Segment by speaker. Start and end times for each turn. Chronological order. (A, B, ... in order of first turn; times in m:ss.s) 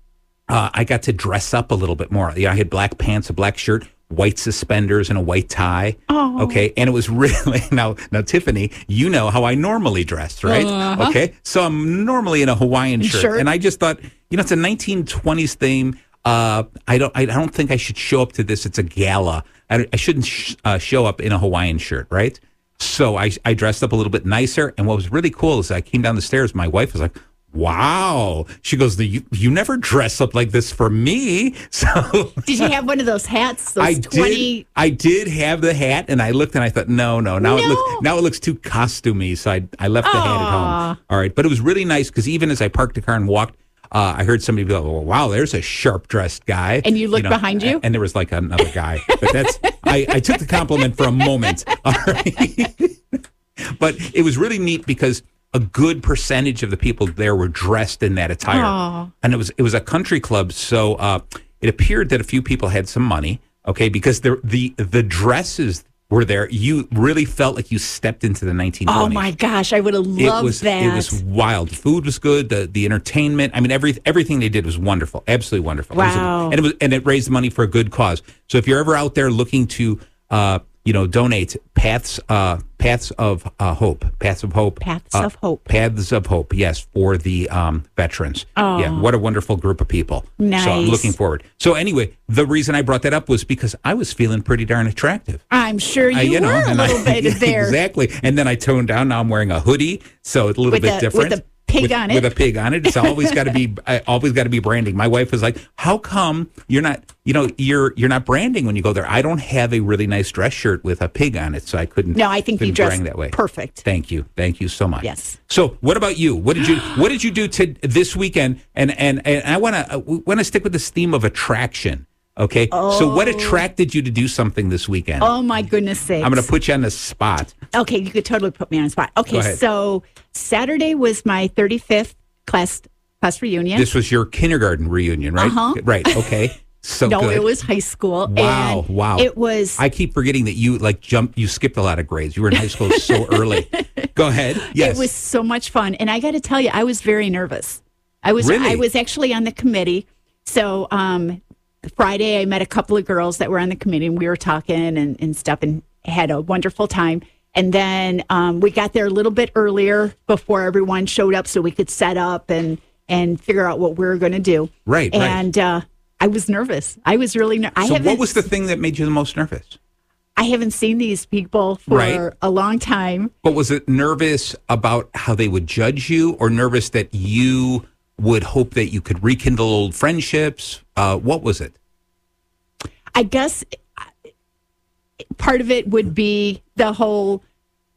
0:00.5-0:32.7 A
0:06.1-0:06.6 B
0:10.4-0:11.2 B
0:13.0-0:13.4 B
0:32.4-0:34.6 B
0:33.8-1:09.3 A
0:37.4-0:38.0 B
0:40.0-0:41.0 B
0:46.8-0:47.8 B
0:48.6-0:51.5 B
0:58.5-0:59.1 B
1:08.9-1:11.2 B
1:10.2-1:35.4 A
1:15.9-1:16.6 B
1:24.8-1:25.7 B
1:28.6-1:29.1 B
1:30.4-1:31.1 B
1:35.5-1:37.8 B
1:36.1-2:05.3 A
1:40.7-1:42.3 B
1:42.8-1:43.3 B
1:52.1-1:53.8 B
1:55.0-1:55.4 B
2:02.7-2:03.6 B
2:05.2-2:06.5 B
2:06.2-2:07.5 A
2:07.7-2:13.9 B
2:09.3-2:09.6 A
2:13.7-2:17.5 A
2:15.4-2:16.4 B
2:17.0-2:19.8 B
2:18.2-2:25.1 A
2:22.6-2:24.0 B
2:24.6-2:48.4 B
2:28.4-2:28.8 A
2:44.8-2:45.4 A
2:47.8-2:49.8 A
2:50.4-2:53.3 B
2:51.9-2:52.2 A
2:53.4-3:01.8 A
3:03.1-3:03.8 B
3:05.4-3:07.4 B